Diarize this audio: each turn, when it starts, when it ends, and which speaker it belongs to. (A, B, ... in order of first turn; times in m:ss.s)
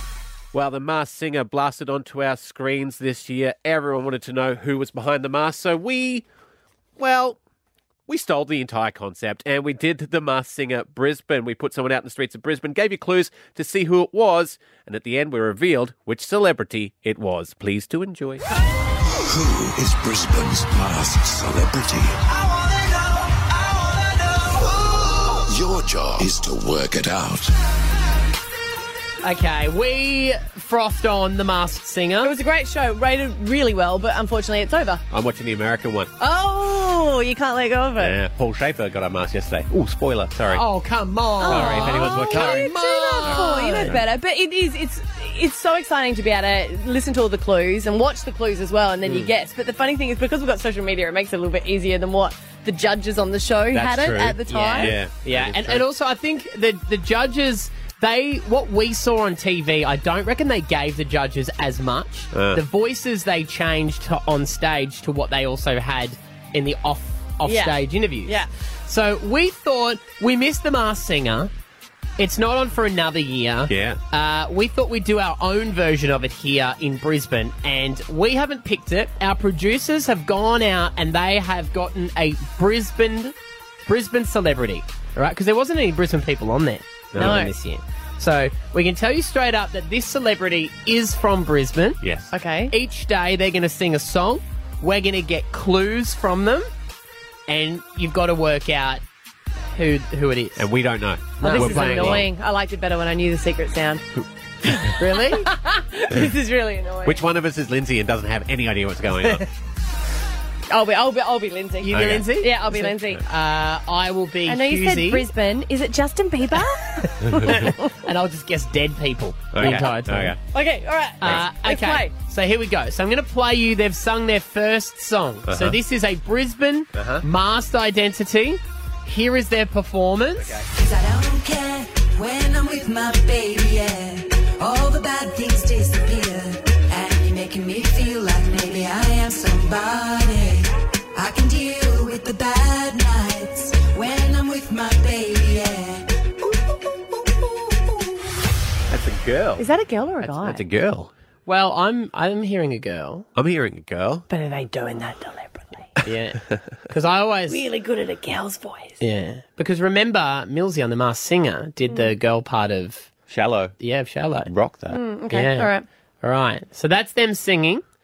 0:00.5-0:06.2 A
0:07.0-0:07.4 A
0:08.1-0:18.5 A
0:19.2-0:22.2 B
0:25.4-0:27.5 B
0:29.2-0:32.3 C
0:32.2-0:35.0 D
0:35.1-0:36.1 A
0:36.2-0:38.2 D
0:38.0-0:40.6 A
0:40.5-0:44.0 C
0:41.4-0:55.0 D
0:41.4-0:44.0 A
0:53.7-0:55.8 A
0:54.5-1:11.5 C
1:02.3-1:02.6 A
1:07.4-1:08.5 D
1:12.2-1:23.3 C
1:13.7-1:14.0 A
1:23.9-1:32.0 C
1:27.1-1:27.4 A
1:27.2-1:27.5 D
1:32.0-1:32.3 A
1:32.3-1:32.7 D
1:32.7-1:36.7 C
1:37.5-1:39.0 C
1:39.7-1:40.7 C
1:40.6-1:42.3 A
1:41.4-1:42.2 C
1:41.4-1:44.0 D
1:44.9-1:45.5 C
1:45.3-1:47.2 D
1:47.0-1:49.4 A
1:50.7-1:53.2 D
1:51.8-1:55.3 C
1:51.9-1:52.3 A
1:54.4-1:57.9 D
1:57.0-2:00.4 C
1:57.3-1:57.6 A
1:59.5-2:00.4 A
2:00.5-2:02.1 D
2:01.2-2:10.6 C
2:05.4-2:05.8 A
2:06.9-2:07.2 A
2:10.4-2:10.7 A
2:10.7-2:26.1 E
2:28.9-2:29.7 A
2:29.6-2:30.6 D
2:30.2-2:31.1 A
2:31.4-2:33.3 C
2:33.4-2:34.3 A
2:34.3-2:35.9 D
2:36.0-2:37.6 C
2:37.5-2:39.0 D
2:39.0-2:43.1 C
2:41.9-2:42.1 D
2:43.3-2:43.7 A
2:43.8-2:44.5 C
2:44.4-2:45.0 A
2:44.9-2:45.8 D
2:45.3-2:45.7 C
2:46.2-2:47.8 C